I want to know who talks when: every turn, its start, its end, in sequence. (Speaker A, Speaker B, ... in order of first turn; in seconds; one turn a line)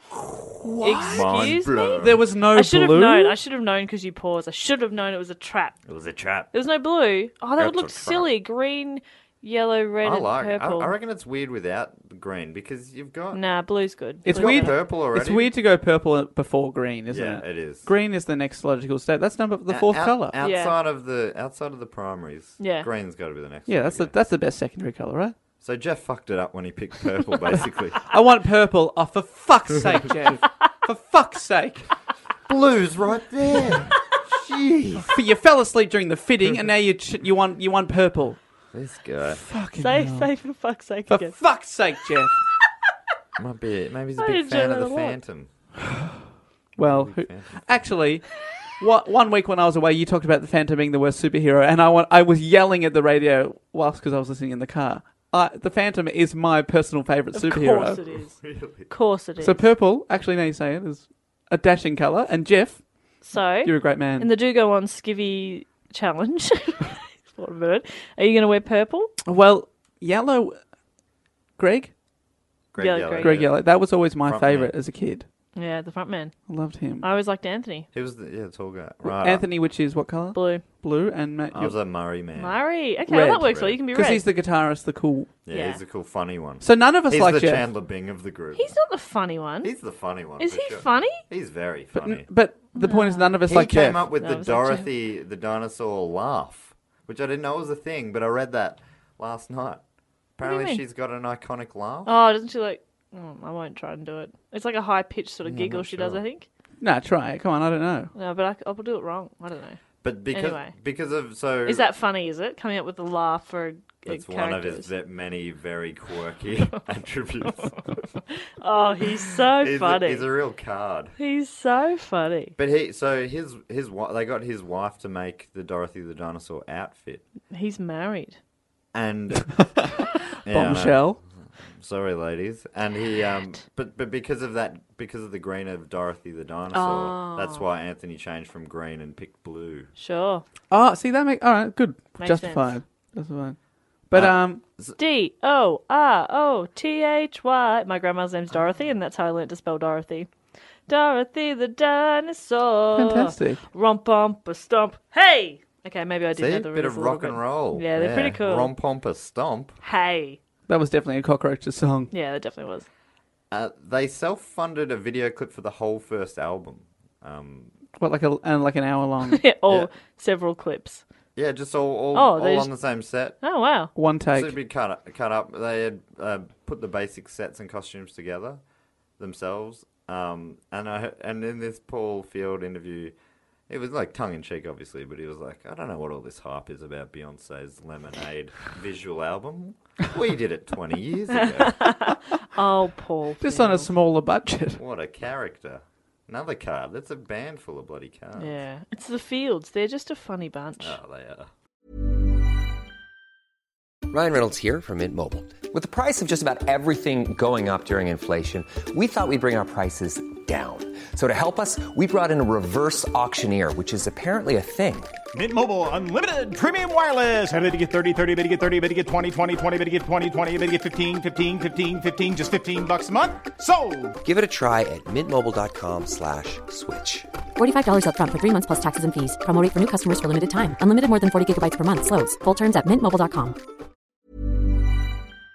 Speaker A: 0.2-2.2
Speaker B: 0.6-3.4
Speaker C: 0.8-5.8
Speaker A: 5.9-6.5
Speaker C: 6.5-10.9
Speaker A: 7.6-8.3
Speaker A: 10.0-13.4
Speaker C: 13.3-14.8
Speaker B: 14.3-20.4
Speaker A: 14.3-15.5
Speaker A: 17.1-17.9
Speaker A: 19.7-24.1
Speaker C: 20.4-20.8
Speaker C: 22.6-22.9
Speaker B: 23.7-25.4
Speaker A: 25.6-28.0
Speaker B: 28.1-31.9
Speaker A: 32.5-35.1
Speaker B: 35.1-38.4
Speaker A: 38.7-39.4
Speaker B: 39.4-40.3
Speaker C: 39.8-41.4
Speaker B: 41.1-42.4
Speaker A: 43.4-45.5
Speaker C: 44.2-45.2
Speaker A: 46.8-47.7
Speaker B: 46.8-58.0
Speaker C: 57.3-59.7
Speaker A: 58.4-58.9
Speaker B: 59.4-64.3
Speaker C: 63.2-69.1
Speaker B: 69.3-70.6
Speaker B: 71.6-71.9
Speaker A: 72.7-73.7
Speaker C: 72.8-73.4
Speaker B: 73.2-75.3
Speaker A: 74.2-74.7
Speaker C: 75.5-76.4
Speaker B: 76.5-77.0
Speaker C: 77.0-77.9
Speaker A: 77.9-79.5
Speaker B: 79.0-81.8
Speaker C: 80.3-80.7
Speaker A: 81.5-82.6
Speaker C: 82.4-84.3
Speaker B: 83.1-85.3
Speaker A: 83.5-83.8
Speaker A: 85.5-88.7
Speaker C: 85.5-85.8
Speaker B: 86.6-87.7
Speaker C: 88.6-89.7
Speaker A: 89.6-92.3
Speaker C: 90.4-91.2
Speaker B: 91.9-94.1
Speaker C: 92.7-93.4
Speaker A: 93.5-99.8
Speaker C: 94.2-94.9
Speaker A: 100.4-102.1
Speaker C: 100.4-100.8
Speaker C: 102.1-106.5
Speaker A: 105.5-106.2
Speaker B: 106.8-108.1
Speaker C: 108.2-109.8
Speaker A: 110.0-111.8
Speaker C: 110.3-110.7
Speaker C: 111.7-114.9
Speaker A: 114.1-117.8
Speaker C: 118.6-120.3
Speaker A: 119.6-121.1
Speaker C: 121.2-122.6
Speaker A: 122.6-127.2
Speaker C: 127.5-128.4
Speaker A: 128.9-129.7
Speaker A: 130.4-131.1
Speaker B: 130.5-131.2
Speaker A: 131.8-139.9
Speaker C: 136.7-137.7
Speaker C: 140.0-140.4
Speaker B: 140.7-143.6
Speaker C: 142.2-142.7
Speaker B: 144.1-144.6
Speaker A: 144.1-145.0
Speaker C: 145.0-150.3
Speaker C: 150.9-158.7
Speaker B: 152.9-153.6
Speaker A: 156.3-159.8
Speaker C: 159.8-160.4
Speaker B: 160.7-162.1
Speaker C: 162.1-162.9
Speaker A: 163.5-167.7
Speaker B: 168.0-169.4
Speaker C: 169.2-171.0
Speaker A: 171.4-173.4
Speaker C: 172.1-172.7
Speaker C: 173.4-173.9
Speaker B: 174.0-174.6
Speaker A: 174.3-178.6
Speaker A: 179.2-183.2
Speaker A: 183.7-191.8
Speaker C: 191.4-193.9
Speaker B: 193.4-194.8
Speaker A: 194.8-198.6
Speaker C: 198.4-201.0
Speaker A: 200.8-201.5
Speaker D: 204.1-215.2
Speaker E: 215.3-224.2
Speaker D: 224.2-227.3
Speaker F: 227.6-233.6